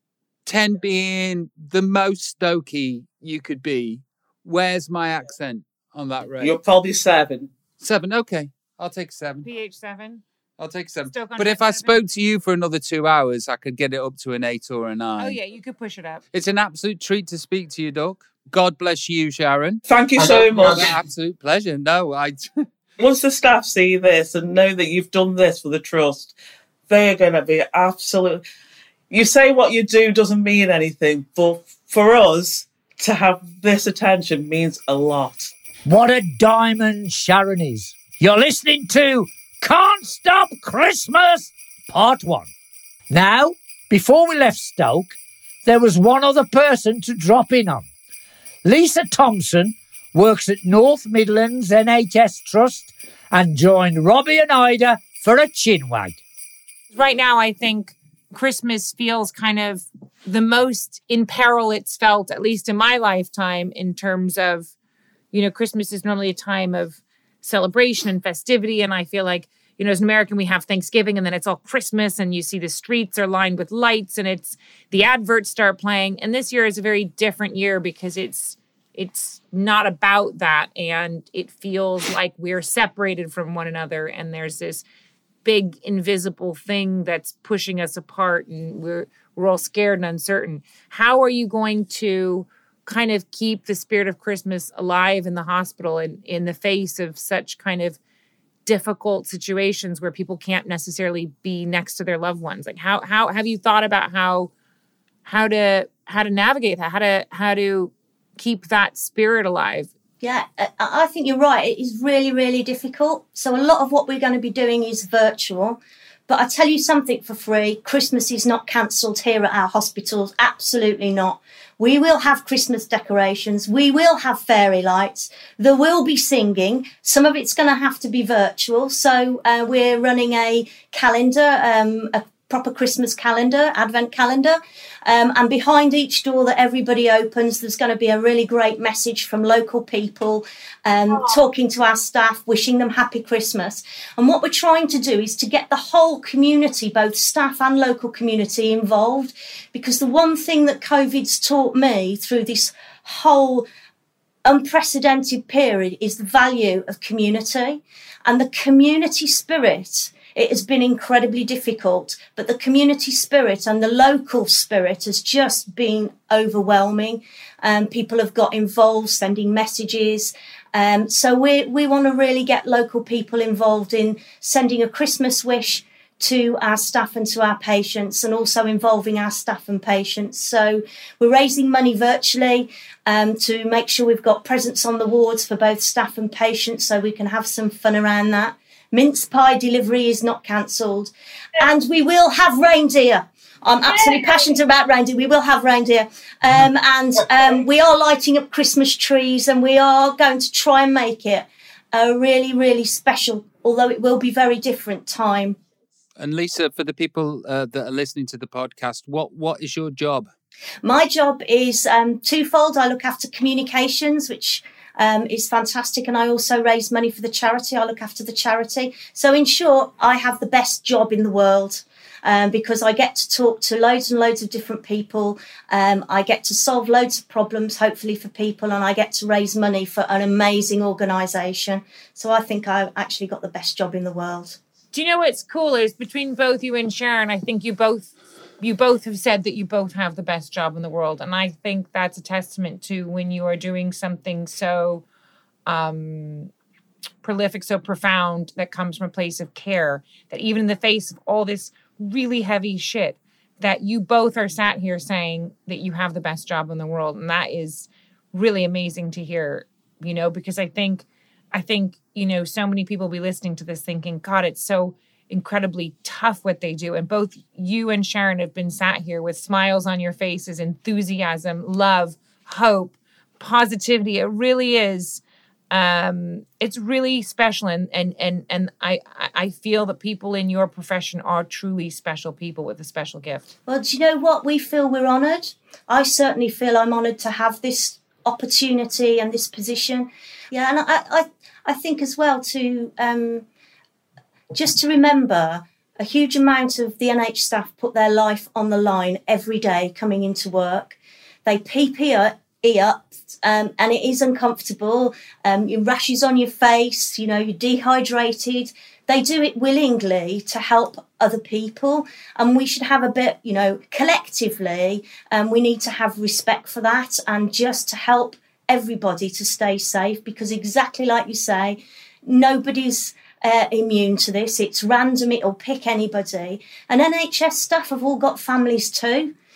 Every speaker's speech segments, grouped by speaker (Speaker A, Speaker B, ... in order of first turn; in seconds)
Speaker A: 0.5-6.6, 7.8-9.5, 10.6-15.4, 16.3-22.6, 206.2-210.3
Speaker B: 6.4-7.5, 19.9-20.9, 23.0-26.3, 26.9-28.4, 29.1-35.5
Speaker C: 9.4-10.2, 11.1-11.9, 15.2-16.2, 56.9-64.7, 65.3-84.8, 85.4-98.0, 98.7-104.5, 105.2-109.9, 234.9-245.0, 245.7-246.5, 247.2-283.5
Speaker D: 35.9-42.5, 43.1-47.9, 48.6-56.2
Speaker E: 110.2-153.7, 154.4-205.6, 210.8-234.6, 283.7-293.5, 294.5-329.3